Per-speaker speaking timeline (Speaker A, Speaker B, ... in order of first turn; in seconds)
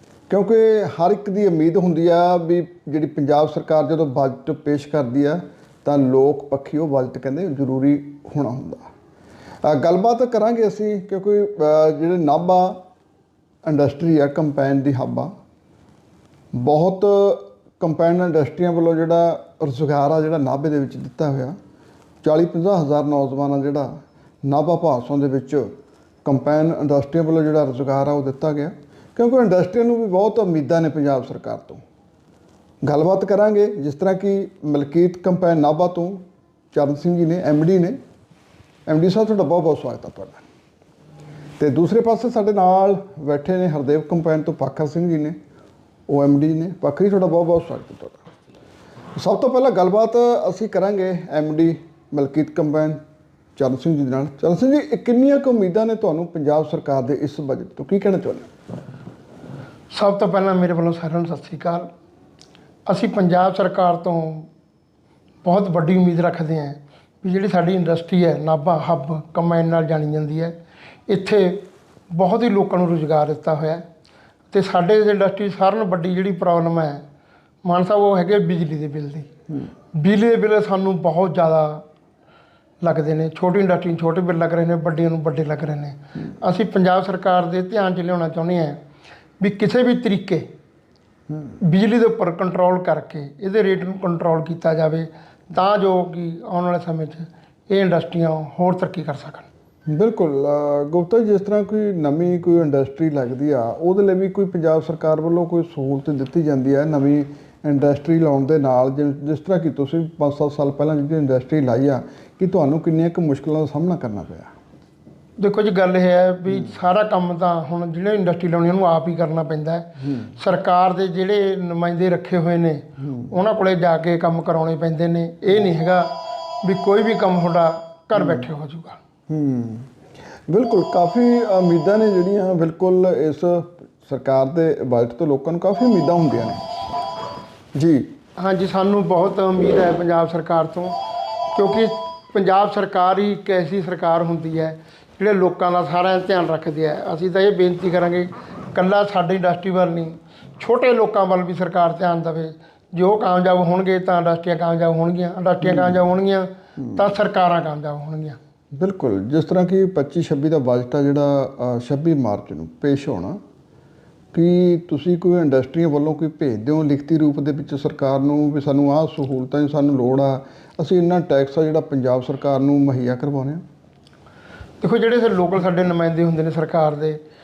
Speaker A: 0.3-8.8, 9.6-12.8, 13.6-15.3, 16.5-21.6, 22.2-23.9, 24.4-25.7, 26.2-31.8, 32.8-36.2, 36.7-38.0, 38.9-40.4, 41.6-45.4, 46.1-48.2, 49.1-53.0, 53.5-58.5, 99.9-114.5, 129.3-129.9, 130.5-136.6, 137.7-138.1, 158.7-163.4, 164.3-173.6
Speaker B: 59.9-61.9, 62.9-64.5, 65.4-70.6, 71.1-73.8, 74.5-77.0, 77.6-79.3, 79.9-81.8, 82.8-88.8, 89.4-90.5, 91.6-99.5, 115.4-129.0, 138.4-140.9, 141.5-158.4, 174.8-177.2